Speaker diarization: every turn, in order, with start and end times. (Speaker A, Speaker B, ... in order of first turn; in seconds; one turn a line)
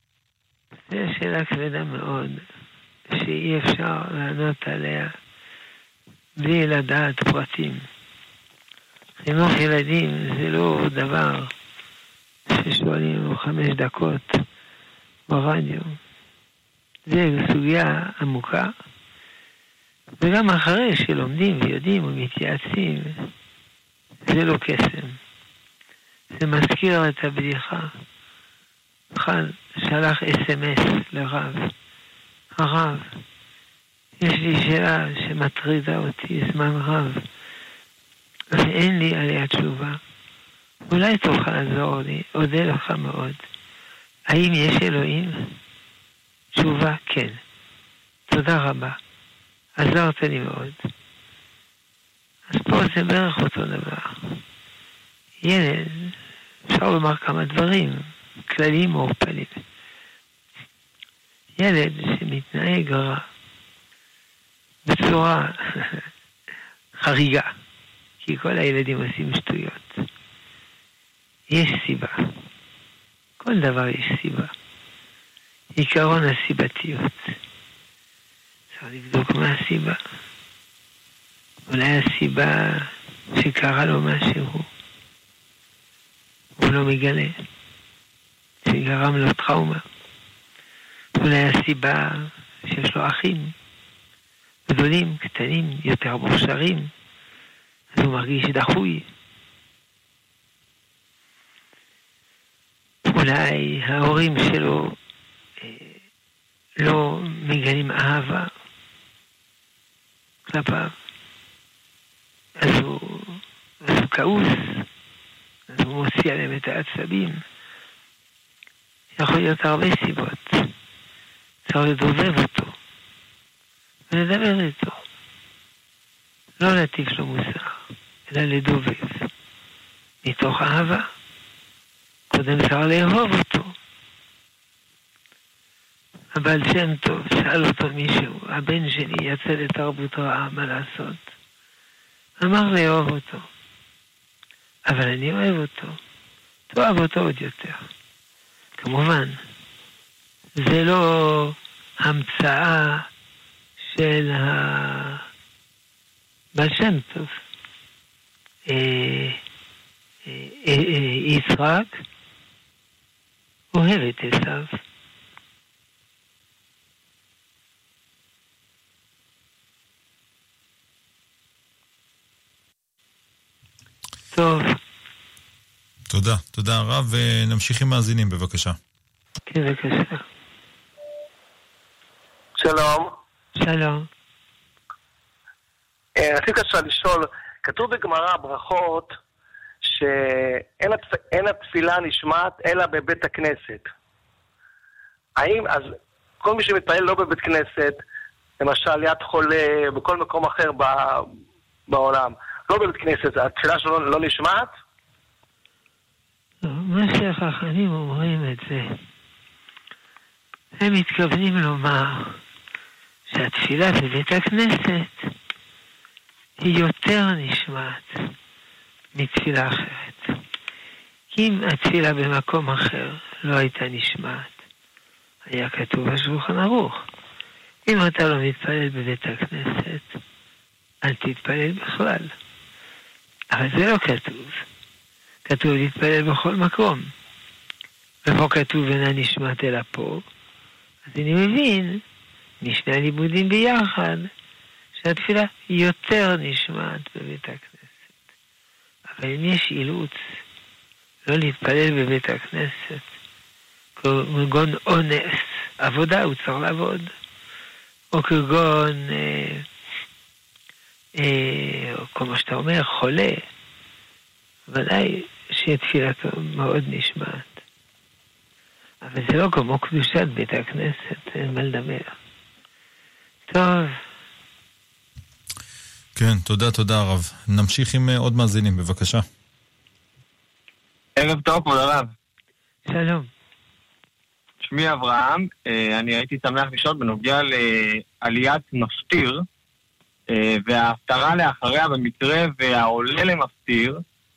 Speaker A: 0.9-2.4
Speaker A: 3.1-5.1
Speaker A: 6.4-7.8
Speaker A: 9.2-11.5
Speaker A: 12.5-14.4
Speaker A: 15.3-16.0
Speaker A: 17.1-18.7
Speaker A: 20.2-23.3
Speaker A: 24.3-25.2
Speaker A: 26.3-27.9
Speaker A: 29.1-31.7
Speaker A: 32.5-33.1
Speaker A: 34.2-37.2
Speaker A: 38.5-40.0
Speaker A: 40.9-43.4
Speaker A: 44.3-45.5
Speaker A: 46.5-47.4
Speaker A: 48.3-49.0
Speaker A: 49.8-50.8
Speaker A: 52.5-54.4
Speaker A: 55.4-56.1
Speaker A: 56.7-59.6
Speaker A: 61.6-63.2
Speaker A: 64.8-66.0
Speaker A: 67.0-67.5
Speaker A: 68.2-70.0
Speaker A: 71.5-72.2
Speaker A: 73.4-74.5
Speaker A: 75.7-77.3
Speaker A: 78.7-80.0
Speaker A: 81.7-84.7
Speaker A: 86.6-87.3
Speaker A: 88.6-89.8
Speaker A: 91.2-93.5
Speaker A: 94.7-96.9
Speaker A: 97.9-99.1
Speaker A: 103.0-104.9
Speaker A: 105.6-106.0
Speaker A: 106.8-108.5
Speaker A: 110.5-110.9
Speaker A: 112.6-114.8
Speaker A: 115.7-117.4
Speaker A: 119.2-120.7
Speaker A: 121.7-122.7
Speaker A: 124.1-125.0
Speaker A: 126.6-129.3
Speaker A: 130.2-131.1
Speaker A: 132.3-133.7
Speaker A: 136.3-141.2
Speaker A: 142.4-143.5
Speaker A: 144.9-146.0
Speaker A: 146.7-147.8
Speaker A: 148.8-149.4
Speaker A: 150.6-153.1
Speaker A: 153.8-155.2
Speaker A: 156.5-157.3
Speaker A: 158.7-159.4
Speaker A: 160.2-162.0
Speaker A: 163.7-164.8
Speaker A: 174.3-174.8
Speaker B: 176.1-178.8
Speaker A: 179.5-180.2
Speaker C: 182.6-183.1
Speaker A: 183.6-184.1
Speaker C: 186.2-189.1
Speaker C: 189.8-193.9
Speaker C: 195.4-198.0
Speaker C: 198.6-201.3
Speaker C: 201.9-204.7
Speaker A: 206.6-209.0
Speaker A: 210.8-212.4
Speaker A: 213.3-215.3
Speaker A: 216.6-218.2
Speaker A: 219.1-220.3
Speaker A: 221.3-224.5
Speaker A: 225.4-227.0
Speaker A: 227.8-230.2
Speaker A: 231.0-232.3
Speaker A: 233.5-234.6
Speaker A: 235.4-237.1
Speaker A: 238.2-240.2
Speaker A: 241.1-242.0
Speaker A: 242.6-244.3
Speaker A: 245.0-248.0
Speaker A: 249.1-250.2
Speaker A: 251.2-253.1
Speaker A: 254.0-257.1
Speaker A: 258.1-259.6
Speaker A: 261.2-263.4
Speaker A: 264.7-267.6
Speaker A: 269.0-272.1
Speaker A: 273.5-274.0
Speaker B: 276.1-279.2
Speaker D: 281.2-282.1
Speaker A: 282.9-283.3
Speaker D: 284.6-289.4
Speaker D: 290.3-294.0